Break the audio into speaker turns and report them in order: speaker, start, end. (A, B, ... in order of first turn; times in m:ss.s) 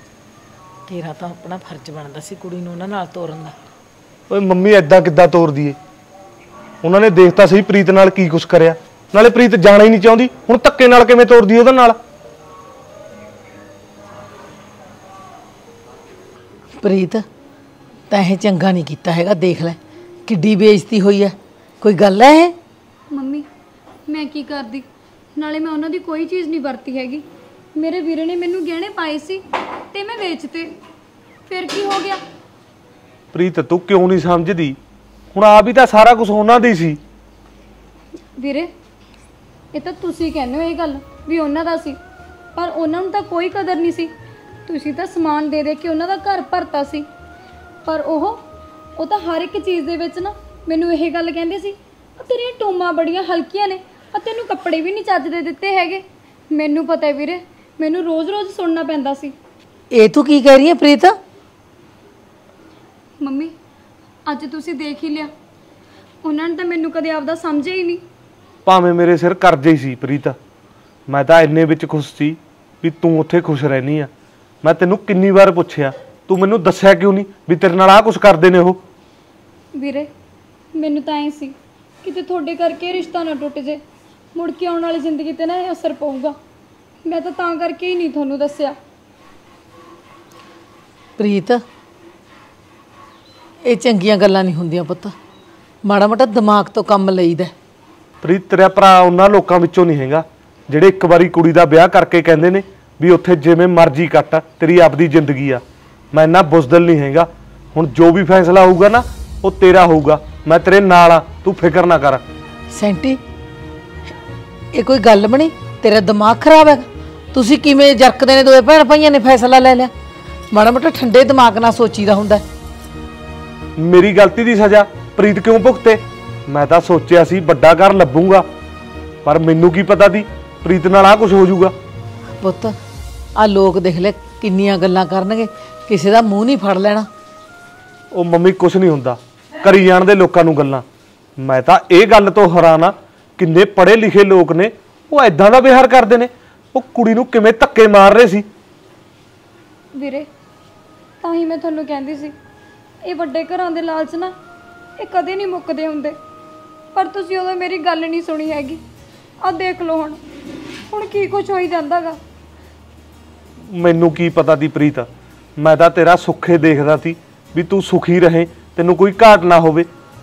0:00.9-0:03.5 A
0:04.3-0:05.8 B
0:06.8-0:12.0 B
0:16.8-0:17.2 A
0:18.1-0:22.6 A
0:23.1-0:23.5 C
0:24.1-0:24.8 C
0:25.4-0:27.2 C
0:27.8-0:30.7 C
0:31.5-0:32.2 C
0:33.3-0:34.8 B
0:35.3-0:37.0 B
0:38.4-0:38.7 C
0:39.7-0:42.0 C
0:42.6-0:44.1 C
0:44.7-0:47.1 C
0:47.8-0:48.4 C
0:49.0-0:59.3 C
0:59.9-1:01.2 A
1:03.2-1:03.5 C
1:04.3-1:05.3 C
1:06.2-1:08.0 C
1:08.6-1:10.4 B
1:11.1-1:14.1 B
1:14.6-1:18.8 B
1:19.8-1:20.1 C
1:20.8-1:23.8 C
1:24.3-1:26.4 C
1:27.0-1:28.8 C
1:31.2-1:31.6 A
1:33.7-1:35.1 A
1:35.8-1:37.5 A
1:38.2-1:45.6 B
1:46.1-1:52.2 B
1:52.7-1:53.2 A
1:54.7-1:59.9 A
2:00.5-2:02.4 A
2:03.8-2:08.5 B
2:09.2-2:11.7 B
2:12.4-2:12.7 A
2:13.4-2:17.1 A
2:18.1-2:20.8 B
2:21.4-2:28.5 B
2:29.9-2:30.3 C
2:31.2-2:32.3 C
2:33.0-2:34.3 C
2:35.0-2:36.2 C
2:37.0-2:38.8 C
2:39.4-2:40.2 C
2:40.9-2:42.2 C
2:43.6-2:49.9 B